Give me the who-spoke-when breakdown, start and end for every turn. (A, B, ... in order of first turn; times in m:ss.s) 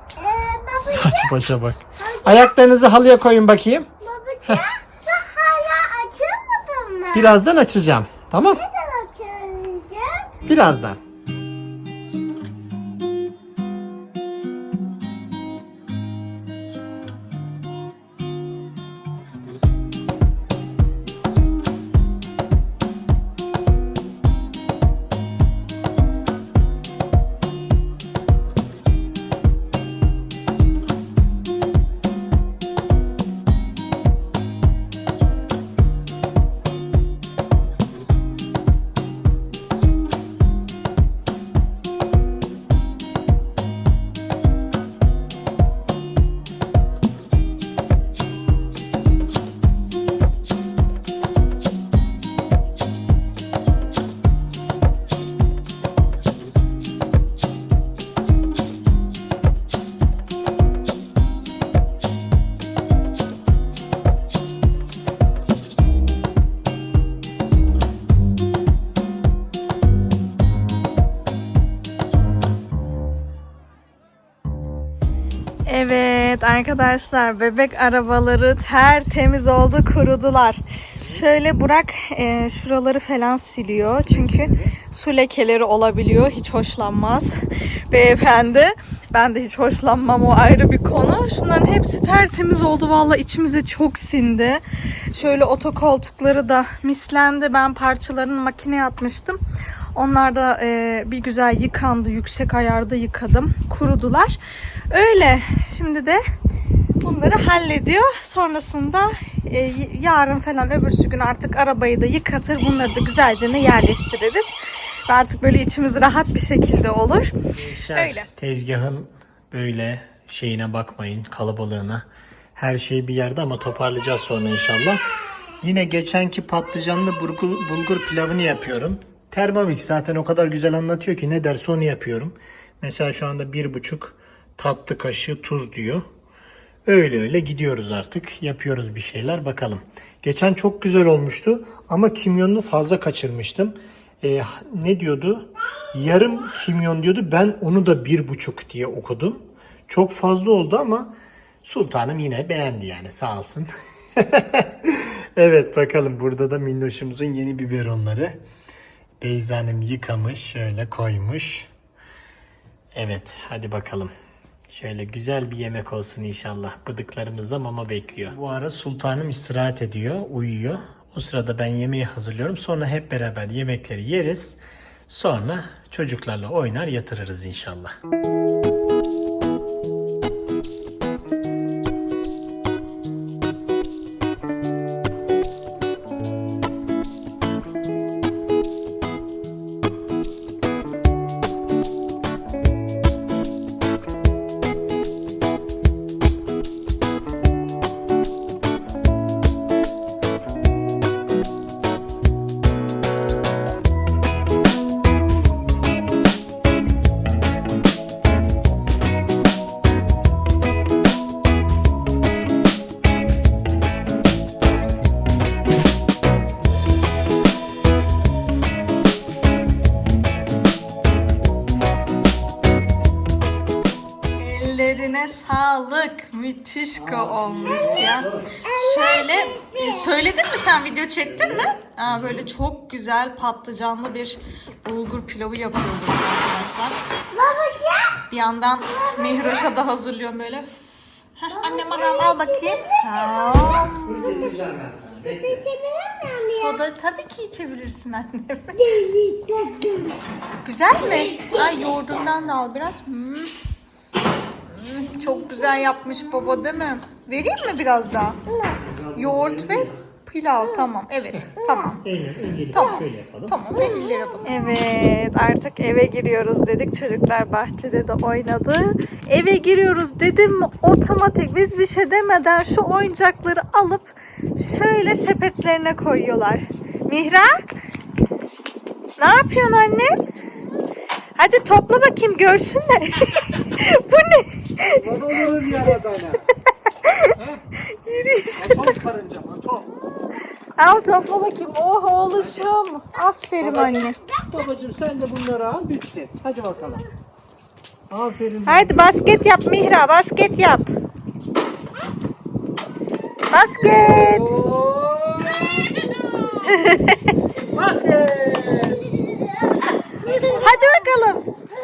0:00.2-0:01.3 A
0:00.8-0:03.9 B
0:02.0-0:02.5 A
0:04.0-0:07.4 A
0:07.1-0:08.6 B
0:08.4-0:10.3 A
0:10.4-0:11.0 B
1:15.6-1:39.4 C
1:24.1-1:24.7 B
1:39.9-1:44.4 C
1:44.9-1:46.2 C
1:47.0-1:54.6 C
1:55.1-1:57.3 C
1:57.5-2:02.0 B
1:58.0-1:58.3 C
2:02.6-2:16.0 B
2:16.8-2:31.1 B
2:31.6-2:38.4 B
2:39.2-2:41.7 B
2:42.9-2:44.1 B
2:44.7-2:57.9 B
3:44.4-3:57.0 C
3:47.0-3:48.6 B
3:48.6-3:50.2 A
3:51.2-3:52.5 B
3:57.3-3:58.2 A
3:58.3-4:00.7 C
3:58.9-3:59.7 A
4:01.4-4:04.4 C
4:01.5-4:04.5 A
4:04.0-4:05.6 B
4:05.3-4:06.8 A
4:06.4-4:08.8 C
4:08.7-4:10.2 A
4:10.6-4:13.5 C
4:11.3-4:11.7 A
4:14.8-4:18.4 C
4:15.2-4:16.6 A
4:18.5-4:18.8 A
4:18.8-4:20.0 B
4:19.1-4:22.0 C
4:21.6-4:22.0 A
4:22.0-4:23.6 B
4:22.7-4:37.7 C
4:23.7-4:24.7 A
4:39.2-4:40.2 C
4:41.4-4:45.8 C
4:44.8-4:46.5 B
4:47.0-4:47.4 C
4:47.3-4:47.6 B
4:47.9-4:49.0 C
4:48.6-4:50.0 B
4:50.8-4:54.2 C
4:52.3-4:52.7 B
4:53.6-4:57.0 B
4:58.1-4:59.1 B
4:58.6-5:00.9 C
5:03.5-5:04.5 C
5:03.8-5:06.0 B
5:06.1-5:06.9 A
5:06.7-5:07.3 C
5:07.6-5:09.2 B
5:10.2-5:10.8 B
5:10.3-5:10.7 A
5:10.4-5:11.4 C